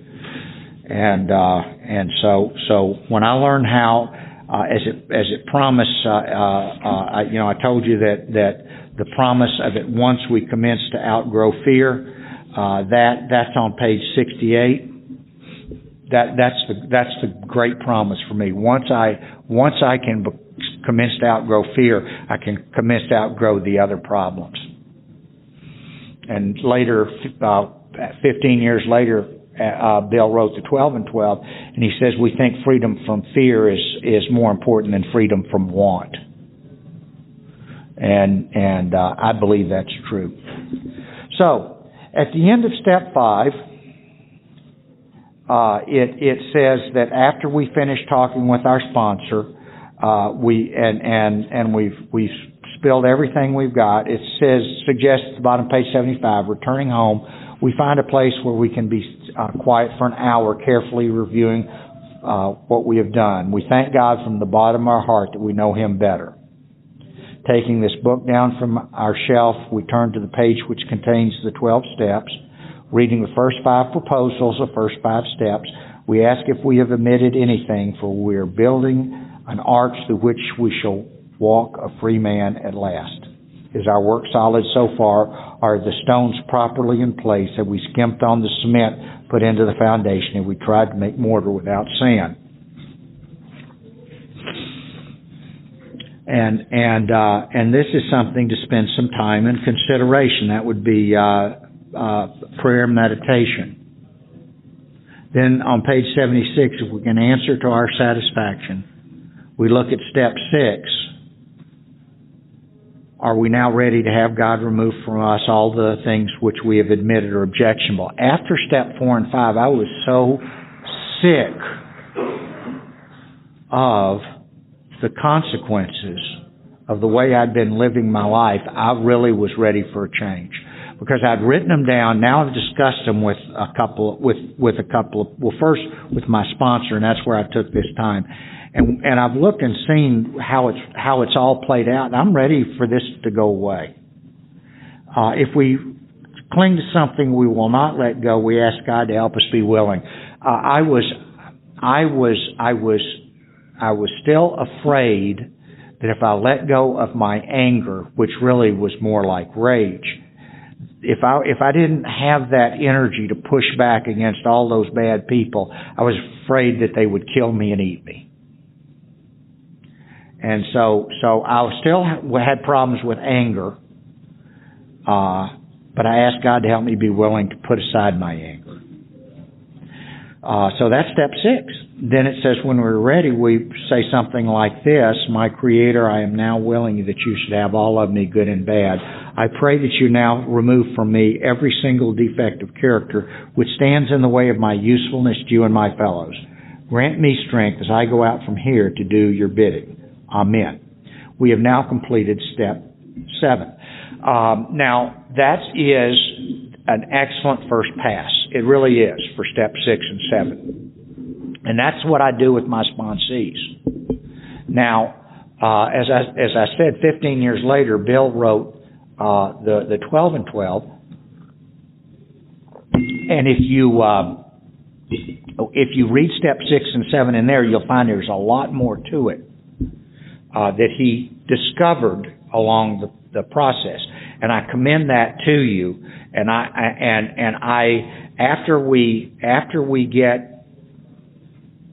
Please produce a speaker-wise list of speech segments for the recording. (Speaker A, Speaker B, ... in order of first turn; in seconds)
Speaker A: 0.9-14.9, 16.1-24.6, 26.3-36.2, 38.0-40.4, 41.3-43.6, 45.5-61.7, 62.2-66.3, 67.5-72.4, 72.9-92.4, 96.3-103.8, 105.3-108.8, 109.6-111.1, 113.2-121.7, 123.7-124.2, 125.0-126.4, 126.9-143.9, 145.1-145.9, 146.5-151.1, 151.8-153.2, 153.8-155.5, 156.0-160.2, 161.0-168.3, 170.4-173.8, 175.1-178.8, 180.4-200.8, 201.4-210.8, 211.7-213.8, 214.7-220.9, 223.2-224.4, 225.6-229.4, 230.5-240.6